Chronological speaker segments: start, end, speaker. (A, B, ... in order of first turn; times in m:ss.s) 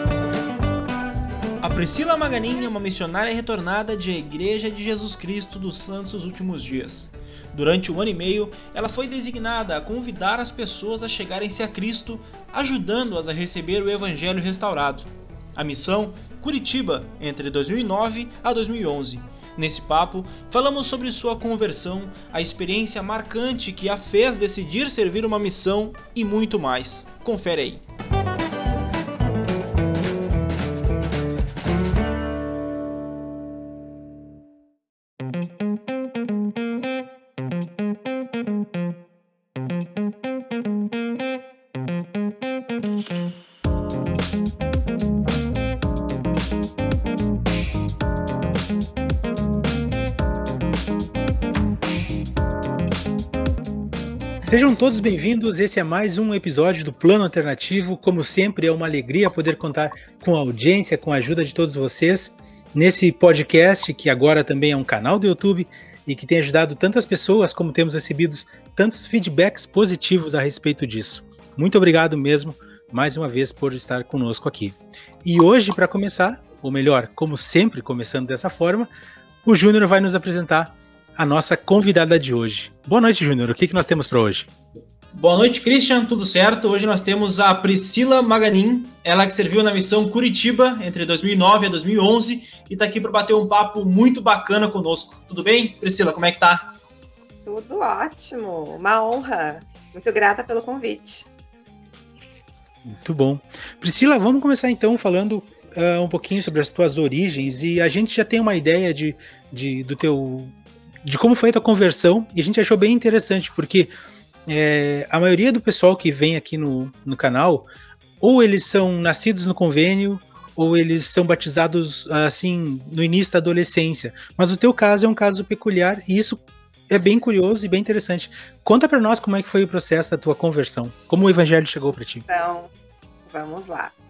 0:01.6-0:27.8 A
0:54.4-1:18.9 B
1:19.4-1:24.5 B
1:25.1-1:36.7 A
1:37.4-1:41.3 C
1:42.8-1:53.9 B
1:54.5-1:57.7 B
1:58.2-2:12.2 B
2:12.3-2:12.7 C
2:13.3-2:13.9 C